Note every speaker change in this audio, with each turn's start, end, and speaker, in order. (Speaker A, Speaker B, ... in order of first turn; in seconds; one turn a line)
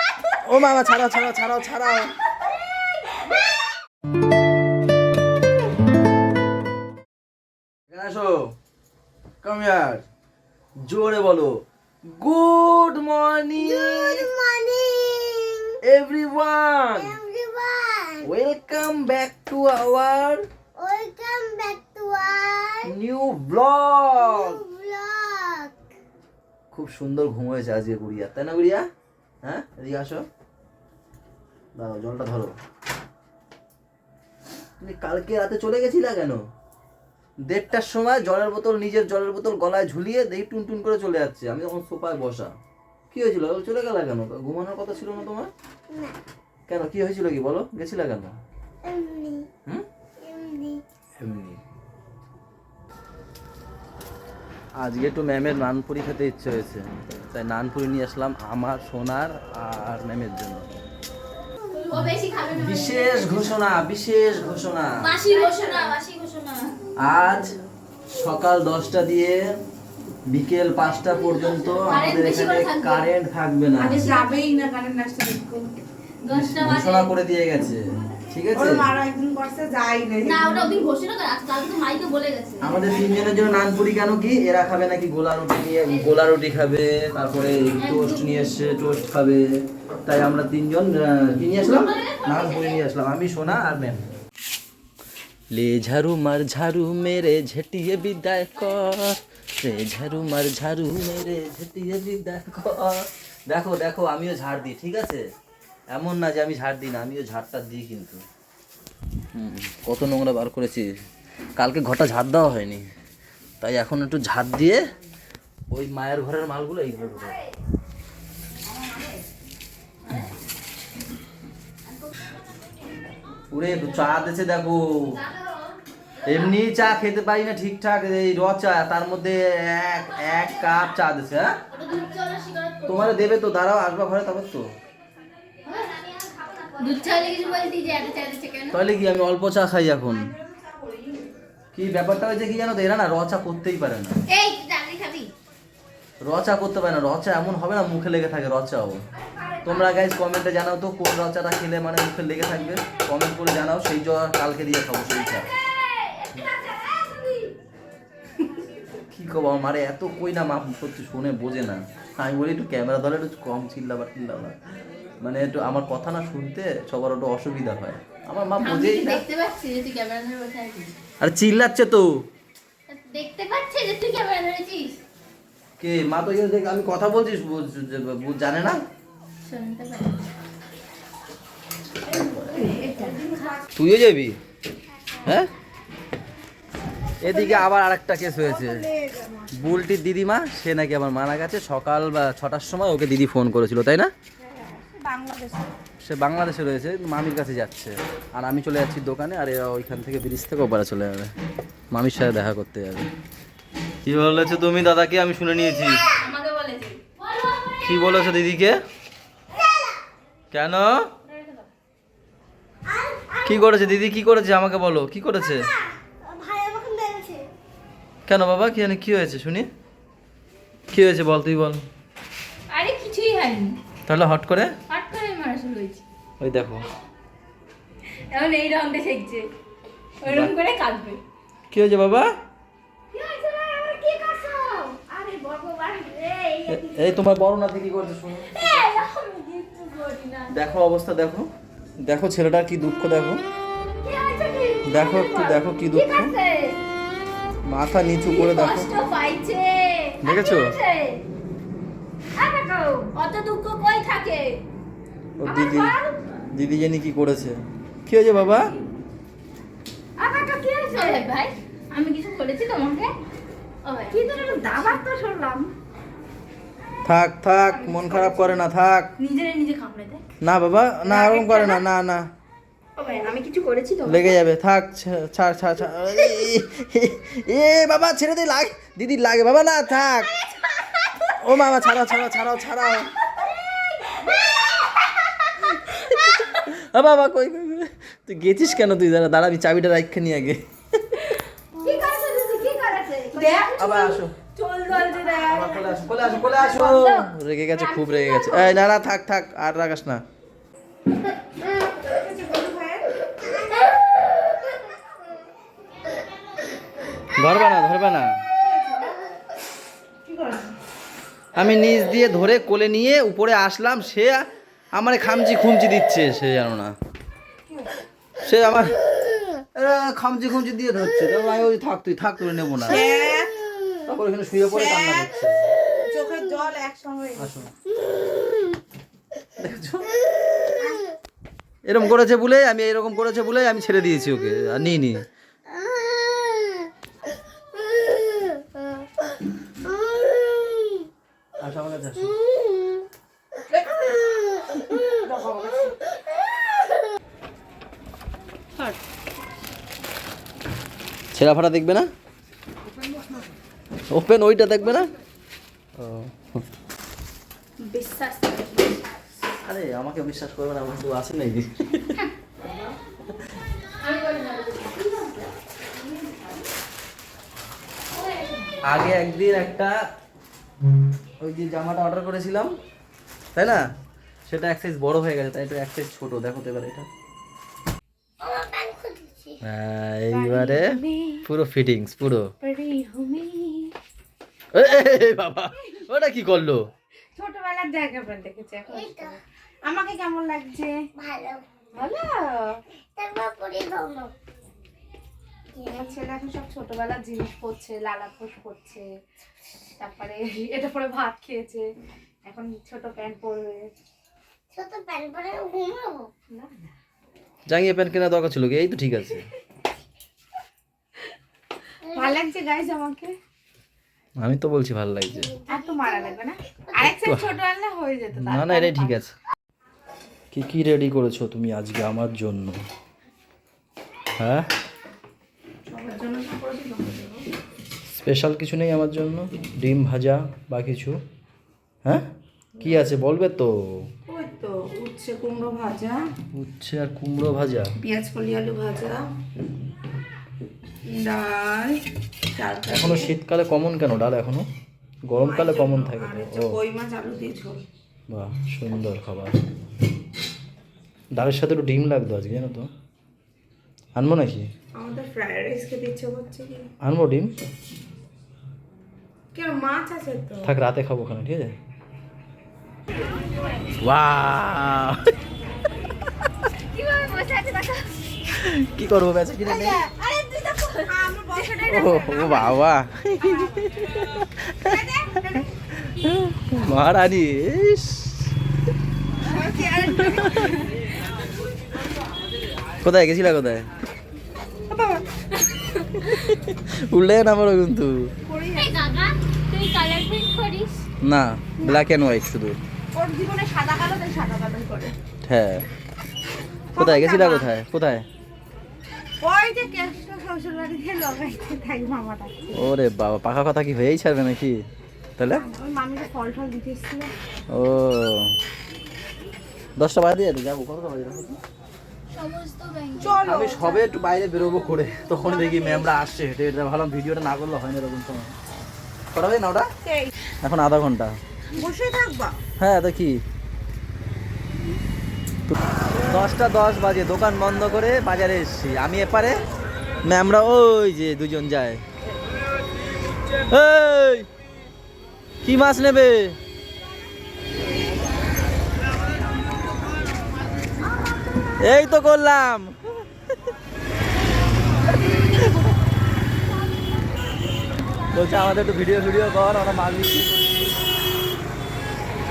Speaker A: 0.4-2.1
Speaker A: 7.9-8.5
Speaker A: 9.4-10.0
Speaker A: 10.8-11.5
Speaker A: 12.1-14.3
Speaker B: 13.6-15.8
Speaker A: 15.8-17.1
Speaker B: 16.9-18.2
Speaker A: 18.2-20.4
Speaker B: 20.8-22.9
Speaker A: 22.8-24.6
Speaker B: 24.2-25.8
Speaker A: 26.7-28.8
Speaker A: 29.4-30.2
Speaker A: 31.8-32.5
Speaker A: 34.8-36.4
Speaker A: 37.5-42.5
Speaker A: 43.1-45.5
Speaker B: 45.9-46.2
Speaker A: 46.7-48.3
Speaker B: 48.8-49.5
Speaker B: 50.2-50.8
Speaker A: 51.2-51.6
Speaker A: 54.8-60.7
Speaker C: 61.7-63.5
Speaker A: 62.5-65.1
Speaker C: 65.0-66.8
Speaker D: 65.3-65.9
Speaker A: 67.0-67.6
Speaker A: 68.1-69.4
Speaker A: 70.3-74.1
Speaker C: 71.7-73.1
Speaker D: 73.8-75.8
Speaker C: 76.2-77.1
Speaker A: 76.3-78.9
Speaker D: 78.5-80.8
Speaker C: 80.2-82.8
Speaker A: 82.6-89.4
Speaker C: 87.8-88.6
Speaker A: 90.0-94.0
Speaker C: 91.6-92.8
Speaker A: 95.5-105.2
Speaker A: 105.9-108.2
Speaker A: 109.3-110.9
Speaker A: 111.6-112.8
Speaker A: 113.6-114.8
Speaker A: 115.7-117.3
Speaker A: 123.5-125.2
Speaker C: 125.2-125.6
Speaker A: 126.2-131.5
Speaker C: 131.7-133.2
Speaker A: 132.8-134.7
Speaker C: 135.7-138.8
Speaker A: 138.7-140.3
Speaker D: 140.1-141.3
Speaker A: 141.7-144.2
Speaker C: 144.3-145.3
Speaker A: 146.2-149.0
Speaker A: 149.6-155.5
Speaker C: 155.6-157.5
Speaker A: 159.1-164.6
Speaker A: 165.2-169.2
Speaker C: 168.6-170.9
Speaker A: 171.2-172.1
Speaker C: 172.9-175.0
Speaker A: 175.8-178.8
Speaker C: 179.4-180.3
Speaker D: 182.1-183.6
Speaker C: 182.3-183.6
Speaker A: 183.8-184.3
Speaker A: 185.2-185.5
Speaker A: 187.2-188.8
Speaker D: 187.3-187.6
Speaker D: 188.4-189.5
Speaker A: 189.5-194.1
Speaker D: 194.4-195.7
Speaker A: 196.0-201.3
Speaker A: 201.9-203.1
Speaker A: 204.0-206.0
Speaker C: 206.0-207.7
Speaker A: 207.8-208.8
Speaker B: 209.5-210.0
Speaker A: 210.5-211.1
Speaker C: 211.2-211.7
Speaker B: 212.9-213.8
Speaker A: 213.4-215.7
Speaker B: 215.5-217.5
Speaker A: 218.3-219.7
Speaker A: 220.9-221.8
Speaker C: 222.7-223.8
Speaker A: 224.1-224.7
Speaker C: 224.9-226.0
Speaker A: 226.4-226.8
Speaker C: 228.3-229.5
Speaker C: 230.2-231.2
Speaker A: 230.2-230.5
Speaker A: 231.7-232.3
Speaker C: 233.1-235.0
Speaker D: 235.1-237.0
Speaker A: 236.7-238.8
Speaker C: 238.4-240.5
Speaker A: 240.5-241.5
Speaker A: 242.0-243.4
Speaker C: 244.0-246.8
Speaker A: 244.8-246.3
Speaker A: 247.7-248.9
Speaker C: 248.2-251.2
Speaker A: 250.2-250.7
Speaker C: 252.3-254.6
Speaker A: 255.4-255.9
Speaker C: 255.4-256.2
Speaker A: 256.5-258.7
Speaker C: 260.2-263.1
Speaker D: 260.9-261.3
Speaker C: 263.8-265.0
Speaker D: 264.1-265.7
Speaker A: 267.0-269.1
Speaker C: 267.9-268.2
Speaker D: 268.0-268.5
Speaker C: 269.2-270.2
Speaker A: 270.4-272.2
Speaker D: 271.1-271.8
Speaker C: 273.0-274.3
Speaker A: 274.0-280.3
Speaker A: 281.4-283.1
Speaker C: 284.1-284.8
Speaker A: 285.8-291.2
Speaker C: 291.3-298.8
Speaker D: 293.3-293.7
Speaker A: 293.8-294.3
Speaker D: 294.9-295.3
Speaker A: 295.3-300.2
Speaker D: 302.0-303.1
Speaker A: 307.3-308.4
Speaker D: 308.6-309.2
Speaker D: 310.2-310.7
Speaker A: 311.5-314.4
Speaker A: 314.9-316.9
Speaker A: 318.4-319.0
Speaker A: 319.7-323.0
Speaker D: 322.9-323.6
Speaker A: 324.1-325.7
Speaker D: 324.7-325.3
Speaker D: 326.0-327.6
Speaker A: 327.4-327.7
Speaker A: 329.6-330.1
Speaker D: 330.8-331.0
Speaker A: 331.8-335.2
Speaker B: 335.7-336.9
Speaker B: 337.8-339.0
Speaker B: 339.8-341.1
Speaker A: 341.6-342.3
Speaker B: 342.6-343.0
Speaker B: 344.3-345.1
Speaker D: 345.2-345.9
Speaker A: 351.3-352.1
Speaker A: 354.1-355.1
Speaker A: 356.0-356.6
Speaker C: 357.8-359.1
Speaker A: 359.6-362.2
Speaker C: 364.0-365.5
Speaker C: 368.2-368.8
Speaker A: 368.8-369.9
Speaker A: 371.4-372.7
Speaker A: 373.5-373.8
Speaker A: 374.5-377.1
Speaker B: 378.4-379.6
Speaker A: 379.6-380.9
Speaker D: 380.3-381.4
Speaker A: 381.4-382.5
Speaker D: 382.6-383.9
Speaker A: 384.7-386.8
Speaker D: 387.4-391.0
Speaker B: 388.9-389.4
Speaker B: 391.1-391.6
Speaker D: 391.9-392.8
Speaker B: 393.1-394.3
Speaker B: 395.7-396.1
Speaker D: 395.9-399.1
Speaker D: 400.0-401.9
Speaker D: 402.4-403.9
Speaker B: 404.7-406.3
Speaker D: 406.5-406.9
Speaker A: 407.7-409.5
Speaker B: 412.1-412.4
Speaker D: 412.1-413.3
Speaker A: 414.4-415.5
Speaker B: 415.3-417.1
Speaker D: 415.7-419.1
Speaker A: 417.2-417.5
Speaker A: 418.4-419.3
Speaker A: 420.5-422.8
Speaker A: 424.4-424.7
Speaker D: 425.9-427.4
Speaker A: 428.1-431.2
Speaker A: 432.8-433.7
Speaker D: 434.3-436.2
Speaker A: 436.5-437.9
Speaker D: 438.0-439.3
Speaker D: 441.1-442.0
Speaker D: 442.5-443.3
Speaker A: 442.9-444.7
Speaker A: 445.3-446.8
Speaker D: 445.4-447.8
Speaker A: 448.3-449.6
Speaker A: 451.3-452.9
Speaker A: 454.1-454.7
Speaker D: 455.0-456.9
Speaker A: 457.0-457.5
Speaker D: 459.5-460.7
Speaker A: 460.6-461.7
Speaker A: 464.0-465.2
Speaker C: 466.9-468.1
Speaker A: 468.5-470.0
Speaker D: 469.6-472.8
Speaker C: 470.6-471.7
Speaker A: 471.9-475.0
Speaker D: 473.4-473.7
Speaker D: 474.8-475.7
Speaker A: 476.0-478.5
Speaker D: 479.4-480.8
Speaker A: 480.1-480.7
Speaker A: 483.0-483.9
Speaker A: 486.2-488.1
Speaker D: 488.5-489.2
Speaker C: 488.7-491.0
Speaker A: 491.2-492.8
Speaker D: 493.1-495.1
Speaker A: 495.4-495.8
Speaker D: 496.9-497.7
Speaker A: 497.0-498.2
Speaker D: 499.4-502.9
Speaker A: 502.7-504.8
Speaker A: 505.4-505.6
Speaker D: 505.5-507.3
Speaker A: 507.7-508.5
Speaker A: 510.0-511.6
Speaker C: 512.3-513.4
Speaker D: 513.2-514.1
Speaker A: 513.4-518.5
Speaker D: 515.5-516.0
Speaker A: 519.3-519.9
Speaker D: 520.0-520.3
Speaker A: 520.6-521.4
Speaker D: 521.7-522.6
Speaker A: 522.8-523.4
Speaker A: 525.7-529.6
Speaker A: 530.2-532.0
Speaker A: 533.7-534.5
Speaker A: 535.6-536.5
Speaker A: 541.8-542.9
Speaker A: 548.3-550.8